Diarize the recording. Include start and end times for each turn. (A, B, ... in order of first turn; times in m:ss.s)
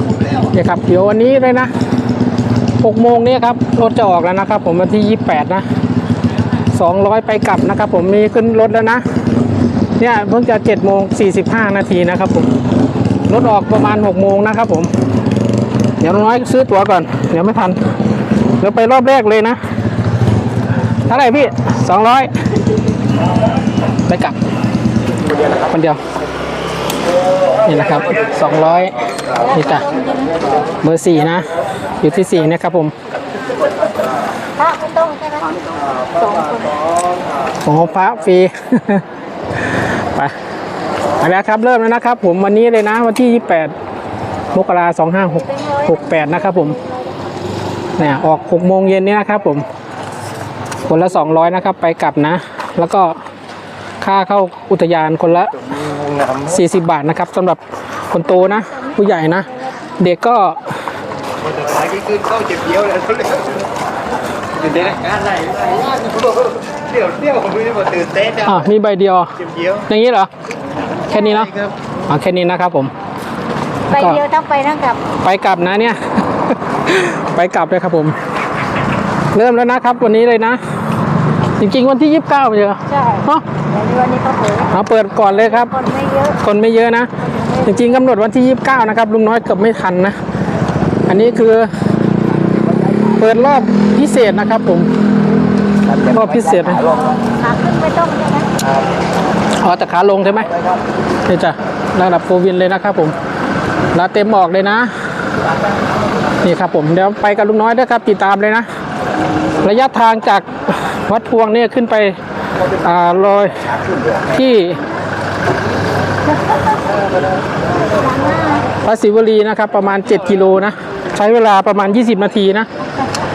0:00.5-0:01.7 A
0:02.8-0:05.7 A
0:06.7-0:09.0 A
0:10.0-0:12.5 A
0:13.3-0:14.9 A
0:16.0-0:17.8 A
0:18.6-0:19.6 A
0:21.1-0:22.3 A
0:24.1-0:24.4 A
0:25.6-0:26.0 A
0:27.6-0:28.9 A
0:29.4-0:29.9 A
0:29.6-0:30.4 B
0:30.8-0:31.5 A
0:32.0-0:32.9 A
0:34.6-0:36.8 B
0:37.6-0:39.0 A
0:40.0-0:40.3 A
0:41.2-0:43.7 A
0:44.5-0:46.8 A
0:45.4-0:46.9 B
0:48.0-0:49.7 A
0:50.8-0:53.2 A
0:54.0-0:55.6 A
0:56.3-1:00.6 A
1:01.8-1:03.4 C
1:04.7-1:06.3 C
1:06.9-1:08.3 C
1:08.3-1:10.3 A
1:11.1-1:12.9 A
1:13.9-1:15.0 B
1:13.9-1:14.2 A
1:15.2-1:16.0 A
1:16.8-1:18.2 A
1:19.3-1:20.6 A
1:21.6-1:23.4 A
1:22.9-1:24.7 B
1:24.7-1:25.7 A
1:25.2-1:26.4 B
1:26.4-1:27.1 A
1:27.6-1:30.2 A
1:31.1-1:31.7 A
1:33.2-1:34.9 A
1:36.0-1:36.8 A
1:36.8-1:38.5 B
1:39.6-1:40.5 A
1:41.3-1:43.2 A
1:43.9-1:44.9 A
1:46.4-1:48.7 A
1:49.6-1:52.2 A
1:52.8-1:53.5 A
1:54.3-1:54.8 A
1:58.1-1:58.6 B
1:58.8-2:02.7 A